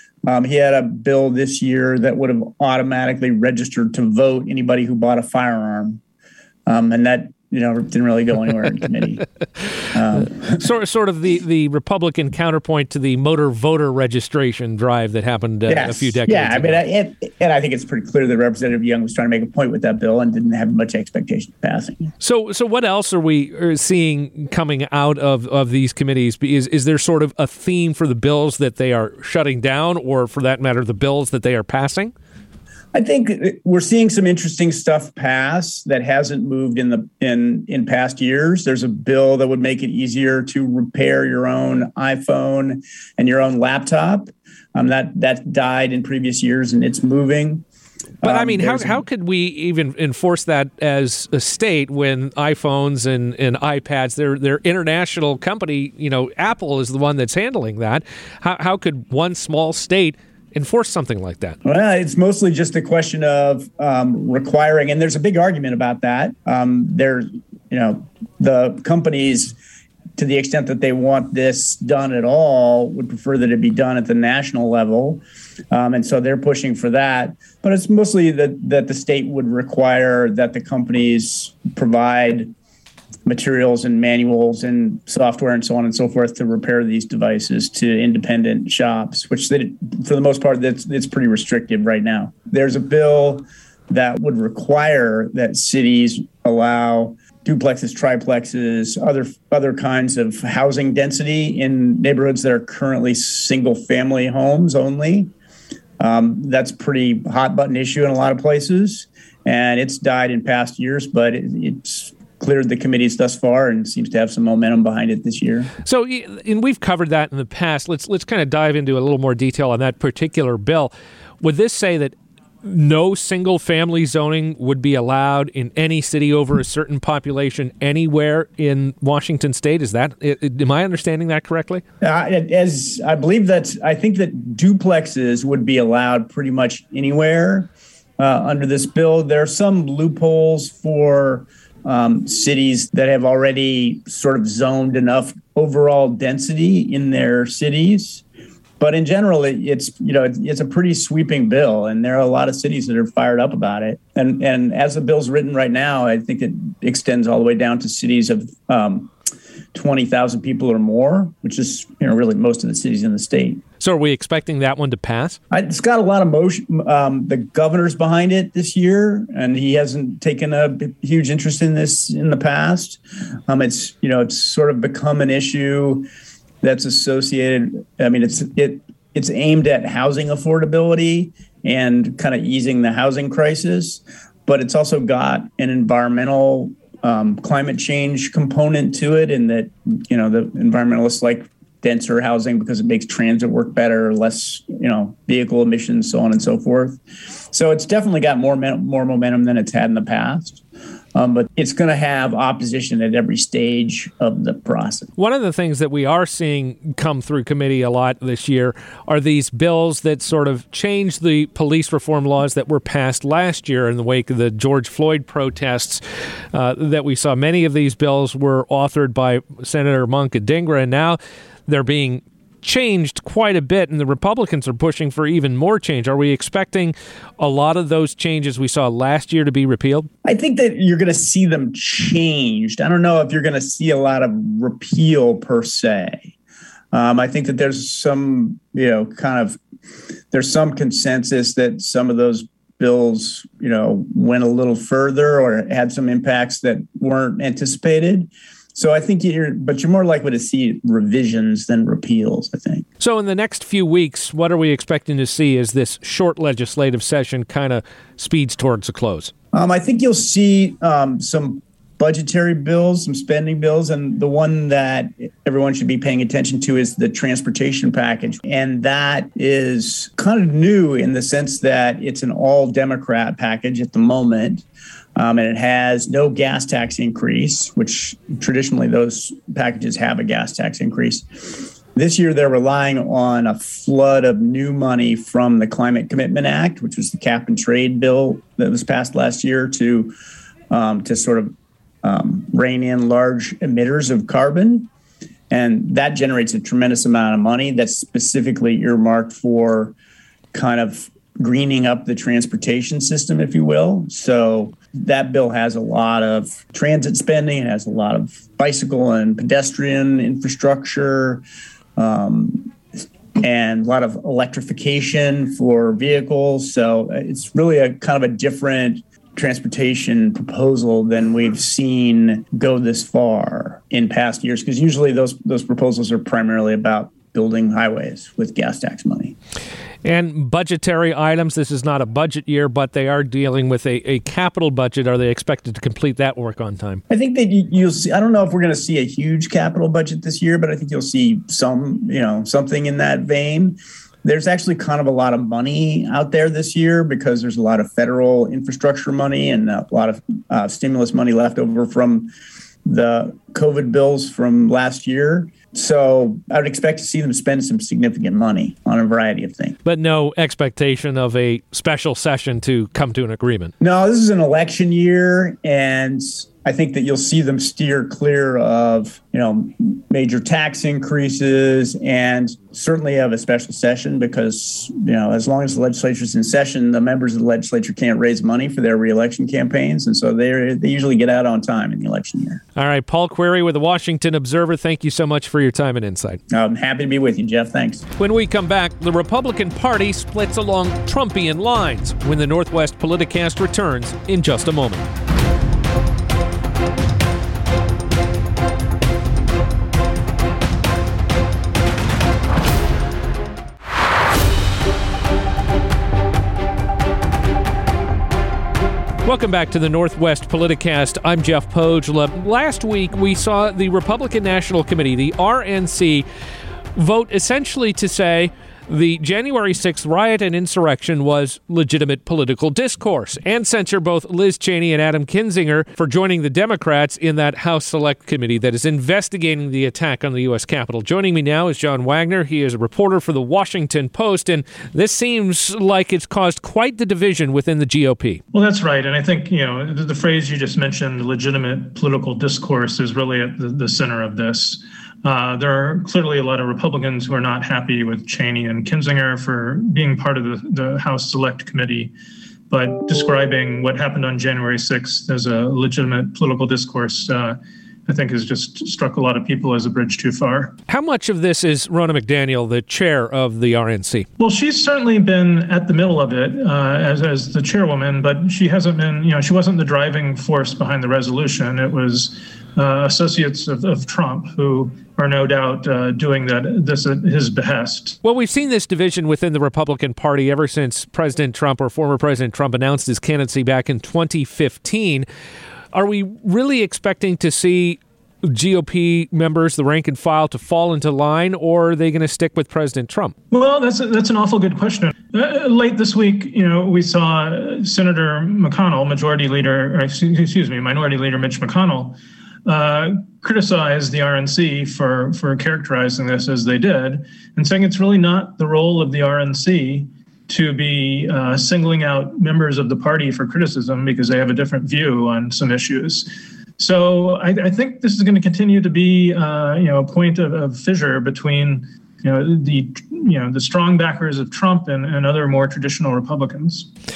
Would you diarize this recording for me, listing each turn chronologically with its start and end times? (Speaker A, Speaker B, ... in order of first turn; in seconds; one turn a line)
Speaker A: 0.3-6.0
Speaker A: 6.7-9.2
Speaker A: 9.9-10.6
Speaker B: 10.5-16.8
Speaker A: 15.7-22.1
Speaker B: 22.2-32.1
Speaker A: 32.9-47.6
Speaker A: 48.2-49.0
Speaker B: 48.2-61.6
Speaker A: 61.6-69.6
Speaker A: 70.2-82.5
Speaker A: 83.3-105.3
Speaker A: 106.0-115.7
Speaker B: 115.8-131.8
Speaker A: 132.0-148.2
Speaker A: 148.8-159.1
Speaker A: 159.7-163.6
Speaker B: 163.8-165.4
Speaker A: 165.5-176.1
Speaker A: 176.6-200.6
Speaker A: 201.2-205.1
Speaker B: 205.2-216.0
Speaker B: 216.5-230.1
Speaker A: 230.2-236.3
Speaker A: 236.9-239.6
Speaker A: 240.3-252.9
Speaker B: 253.0-259.3
Speaker A: 259.5-274.6
Speaker A: 275.2-290.1
Speaker A: 290.7-294.9
Speaker A: 295.5-299.9
Speaker A: 300.5-311.4
Speaker A: 312.0-312.8
Speaker A: 313.4-329.4
Speaker B: 330.0-337.0
Speaker A: 337.1-352.3
Speaker A: 352.9-359.8
Speaker B: 359.9-363.7
Speaker A: 363.8-382.6
Speaker B: 382.8-386.4
Speaker A: 386.5-388.1
Speaker B: 388.2-395.1
Speaker B: 409.2-416.3
Speaker B: 417.0-438.4
Speaker C: 438.5-452.1
Speaker C: 452.7-460.8
Speaker B: 460.9-464.3
Speaker C: 464.4-478.2
Speaker B: 478.2-485.3
Speaker B: 485.9-493.4
Speaker C: 493.5-526.9